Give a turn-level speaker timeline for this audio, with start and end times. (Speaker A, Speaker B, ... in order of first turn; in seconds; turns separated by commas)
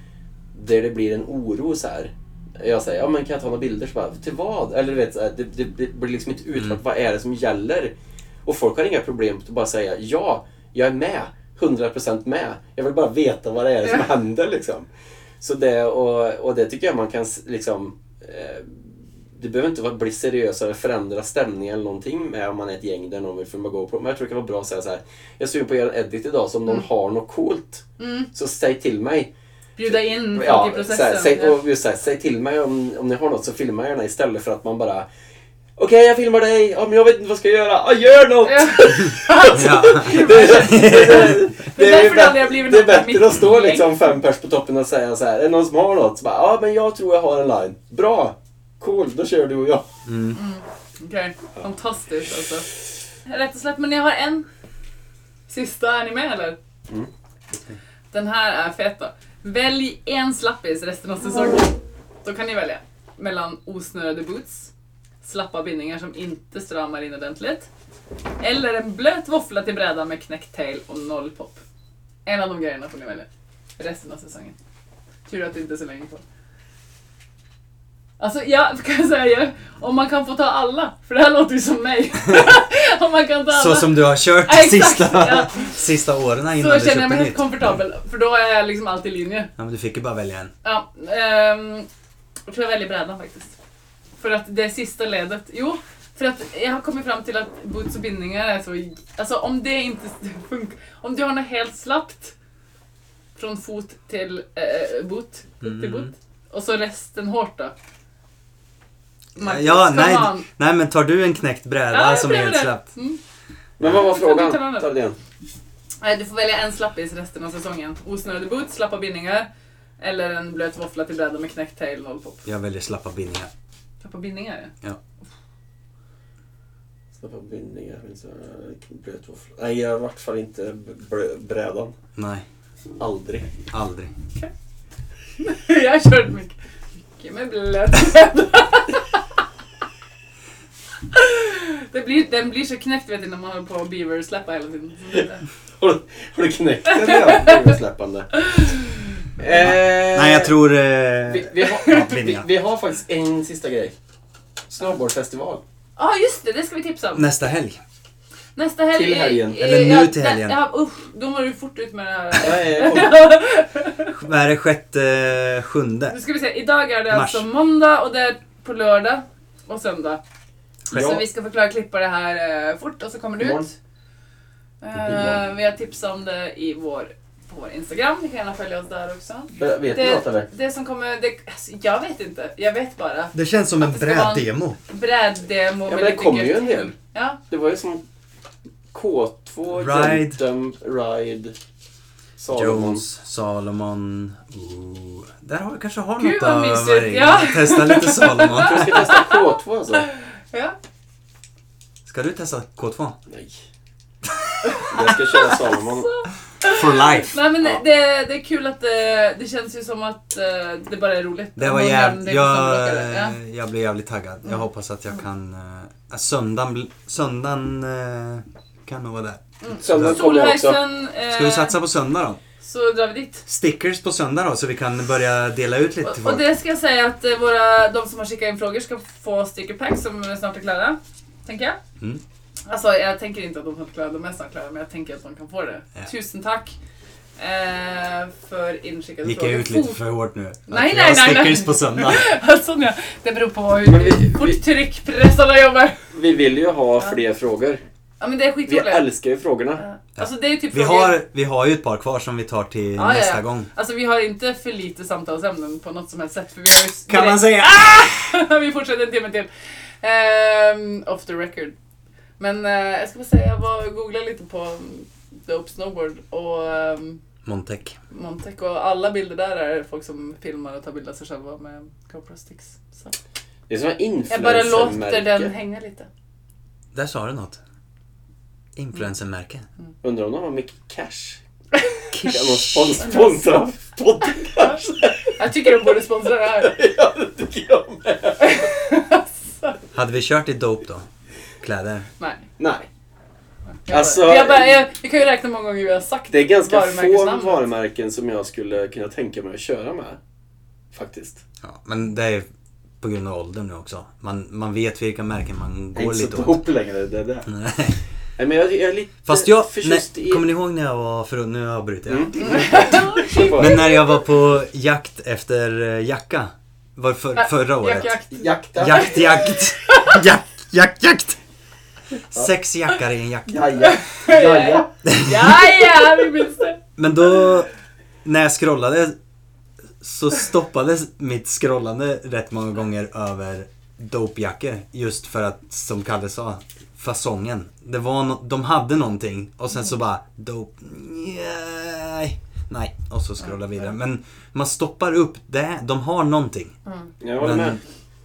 Speaker A: 0.5-7.9, Speaker A: 8.4-14.9, Speaker A: 15.4-29.3, Speaker B: 28.0-28.3, Speaker B: 29.8-31.6, Speaker A: 29.9-35.1, Speaker A: 35.8-49.9, Speaker B: 38.4-43.9, Speaker C: 39.5-41.5, Speaker C: 50.0-50.4, Speaker B: 50.3-52.7, Speaker B: 53.2-54.5, Speaker B: 55.5-56.6, Speaker B: 58.1-64.7, Speaker B: 65.2-67.7, Speaker B: 68.4-71.6, Speaker B: 72.2-73.3, Speaker B: 73.8-74.5, Speaker B: 75.3-76.2, Speaker B: 78.2-85.8, Speaker C: 83.5-87.7, Speaker B: 86.5-89.5, Speaker C: 89.6-90.5, Speaker B: 90.6-91.9, Speaker B: 92.5-93.5, Speaker B: 94.2-102.3, Speaker B: 103.3-107.7, Speaker C: 105.6-106.1, Speaker B: 109.3-110.5, Speaker C: 109.4-112.9, Speaker B: 111.9-113.2, Speaker A: 113.8-115.2, Speaker B: 113.9-114.9, Speaker B: 116.0-119.5, Speaker B: 120.0-122.4, Speaker C: 122.5-123.5, Speaker B: 124.0-124.7, Speaker A: 127.1-132.0, Speaker C: 132.2-132.4, Speaker A: 133.0-133.5, Speaker C: 133.7-134.1, Speaker B: 135.4-136.6, Speaker B: 137.1-139.2, Speaker B: 141.1-145.4, Speaker A: 145.8-148.7, Speaker B: 146.9-147.7, Speaker B: 148.4-149.1, Speaker A: 149.4-150.5, Speaker C: 149.6-152.5, Speaker A: 151.3-153.9, Speaker A: 154.7-155.6, Speaker B: 156.0-157.2, Speaker C: 157.1-157.8, Speaker B: 158.6-164.1, Speaker A: 158.9-159.7, Speaker C: 159.6-160.6, Speaker A: 162.4-163.2, Speaker C: 164.1-166.2, Speaker B: 166.1-170.2, Speaker C: 167.1-167.5, Speaker B: 170.9-173.7, Speaker C: 170.9-171.2, Speaker A: 170.9-171.2, Speaker A: 173.4-173.7, Speaker B: 174.8-187.4, Speaker A: 175.0-175.4, Speaker A: 179.6-180.5, Speaker C: 183.3-184.8, Speaker A: 185.8-186.9, Speaker A: 187.5-188.0, Speaker A: 188.9-191.6, Speaker C: 189.8-190.4, Speaker A: 192.4-193.0, Speaker C: 192.5-199.1, Speaker B: 196.2-199.4, Speaker A: 198.6-200.1, Speaker B: 200.0-200.8, Speaker C: 202.1-203.2, Speaker A: 203.3-203.6, Speaker B: 204.6-213.4, Speaker A: 204.8-206.1, Speaker C: 206.6-207.3, Speaker C: 211.6-220.2, Speaker B: 219.6-221.8, Speaker A: 219.8-220.8, Speaker C: 221.3-222.4, Speaker B: 222.6-223.4, Speaker C: 223.5-226.4, Speaker B: 226.0-231.8, Speaker B: 232.7-236.8, Speaker B: 237.4-240.0, Speaker C: 239.2-242.3, Speaker B: 240.7-246.0, Speaker A: 243.8-244.6, Speaker A: 246.1-247.8, Speaker B: 248.2-249.1, Speaker A: 248.7-249.8, Speaker B: 249.8-251.2, Speaker C: 250.2-253.7, Speaker B: 253.0-259.5, Speaker C: 257.1-258.1, Speaker B: 260.0-261.7, Speaker B: 262.4-267.2, Speaker C: 267.4-268.0, Speaker B: 268.1-273.2, Speaker A: 273.7-275.5, Speaker B: 274.3-276.1, Speaker C: 276.9-277.6, Speaker C: 278.8-279.6, Speaker A: 280.0-281.4, Speaker C: 282.1-283.0, Speaker A: 282.2-288.7, Speaker B: 283.0-283.3, Speaker B: 285.3-286.8, Speaker B: 288.4-289.8, Speaker C: 289.9-291.1, Speaker C: 291.6-292.1, Speaker B: 292.2-292.4, Speaker A: 292.6-292.9, Speaker B: 293.9-297.6, Speaker A: 293.9-294.8, Speaker A: 296.3-300.2, Speaker A: 300.9-301.4, Speaker C: 301.6-302.4, Speaker C: 303.0-306.6, Speaker A: 305.9-307.5, Speaker C: 307.5-308.0, Speaker A: 308.4-310.4, Speaker C: 309.2-313.0, Speaker A: 312.1-313.8, Speaker B: 312.4-314.0, Speaker C: 313.5-318.2, Speaker B: 317.3-320.2, Speaker A: 318.4-319.5, Speaker C: 318.8-321.4, Speaker C: 322.3-323.6, Speaker A: 323.5-324.9, Speaker B: 323.8-326.8, Speaker C: 325.1-325.5, Speaker C: 327.0-327.7, Speaker C: 328.2-329.1, Speaker C: 330.0-346.7, Speaker B: 346.9-347.1, Speaker A: 347.2-347.8, Speaker C: 347.4-347.8